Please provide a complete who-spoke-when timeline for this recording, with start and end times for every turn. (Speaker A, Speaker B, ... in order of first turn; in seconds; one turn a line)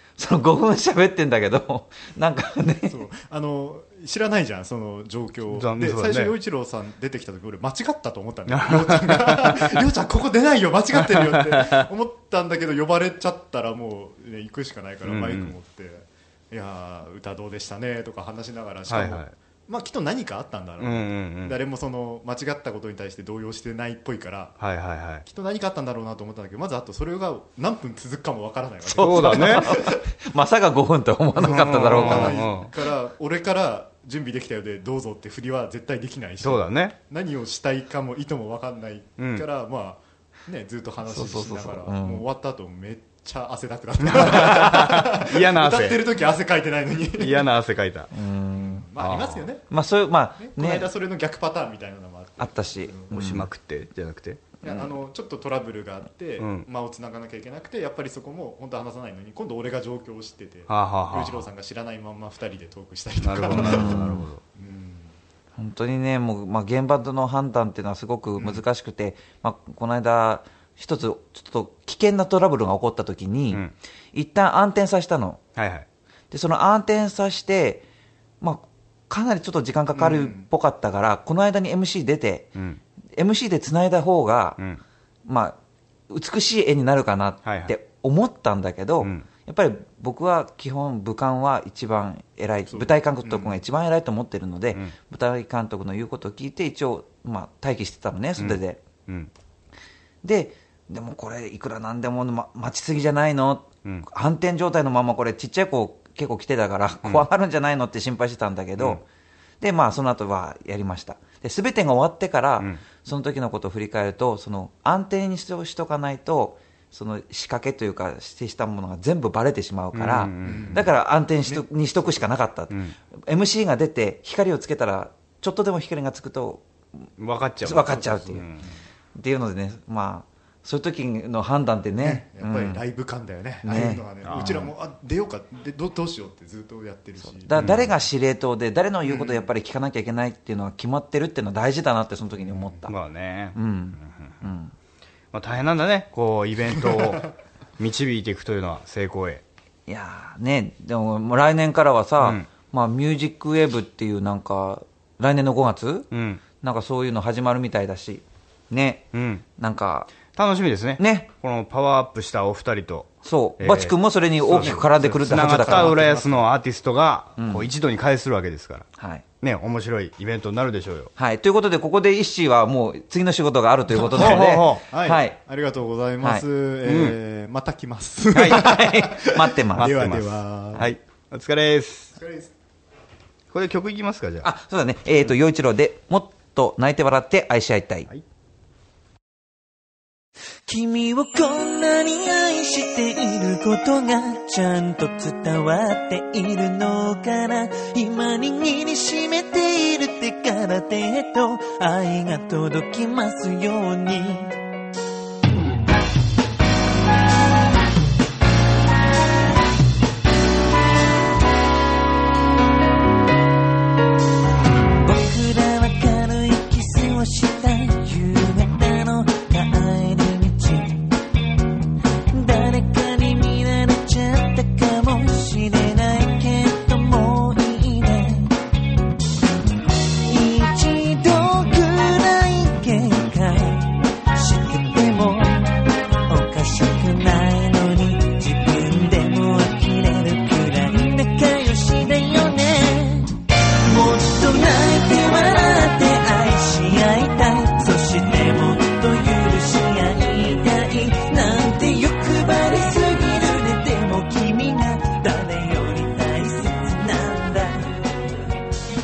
Speaker A: 0.2-3.0
Speaker B: 2.9-24.6
Speaker C: 5.5-6.3
Speaker C: 8.5-9.8
Speaker C: 11.0-11.9
Speaker C: 15.0-15.5
Speaker C: 18.9-19.3
Speaker C: 20.8-21.6
Speaker C: 24.6-25.2
Speaker B: 25.2-30.1
Speaker A: 28.8-32.4
Speaker C: 29.0-29.7
Speaker C: 31.4-32.7
Speaker B: 31.5-47.5
Speaker C: 36.4-36.9
Speaker C: 39.2-39.4
Speaker A: 41.0-42.2
Speaker C: 44.0-46.0
Speaker C: 47.2-48.1
Speaker A: 48.1-48.9
Speaker B: 48.6-49.7
Speaker C: 49.0-49.5
Speaker A: 49.7-50.9
Speaker B: 50.4-53.2
Speaker A: 52.4-53.5
Speaker C: 53.1-54.5
Speaker B: 54.6-65.2
Speaker C: 56.4-56.7
Speaker C: 60.7-61.5
Speaker C: 63.2-64.4
Speaker A: 63.5-64.3
Speaker A: 65.6-75.4
Speaker B: 68.3-68.6
Speaker C: 75.5-75.8
Speaker A: 76.3-77.8
Speaker A: 78.4-82.5
Speaker B: 79.9-80.5
Speaker C: 82.5-82.8
Speaker A: 83.1-84.6
Speaker A: 85.2-85.6
Speaker A: 86.1-98.8
Speaker C: 87.4-87.7
Speaker C: 89.0-89.3
Speaker B: 92.7-93.6
Speaker C: 98.4-99.3
Speaker A: 100.2-109.0
Speaker A: 109.6-126.6
Speaker C: 119.9-120.8
Speaker B: 120.4-122.2
Speaker C: 122.7-123.0
Speaker C: 127.2-128.7
Speaker A: 127.6-128.4
Speaker A: 129.1-132.8
Speaker B: 132.0-137.9
Speaker A: 133.6-134.4
Speaker C: 134.2-134.7
Speaker A: 137.3-142.9
Speaker C: 137.5-137.9
Speaker B: 139.0-139.5
Speaker B: 142.4-142.8
Speaker C: 142.9-144.4
Speaker A: 143.5-144.7
Speaker C: 145.3-149.4
Speaker A: 149.9-160.2
Speaker C: 152.2-152.5
Speaker C: 156.1-156.4
Speaker C: 159.1-159.4
Speaker C: 160.3-168.9
Speaker A: 161.0-161.3
Speaker A: 163.2-166.0
Speaker B: 164.4-166.5
Speaker A: 167.4-167.7
Speaker A: 168.9-169.2
Speaker C: 169.4-171.1
Speaker A: 171.2-175.4
Speaker C: 174.0-174.8
Speaker B: 174.1-181.0
Speaker C: 176.8-177.2
Speaker A: 178.3-179.9
Speaker C: 178.3-178.7
Speaker C: 179.8-182.1
Speaker B: 182.1-182.5
Speaker C: 183.5-184.5
Speaker A: 184.4-188.1
Speaker D: 190.7-204.6
Speaker D: 215.0-221.1
Speaker D: 222.3-228.5
Speaker D: 230.1-258.2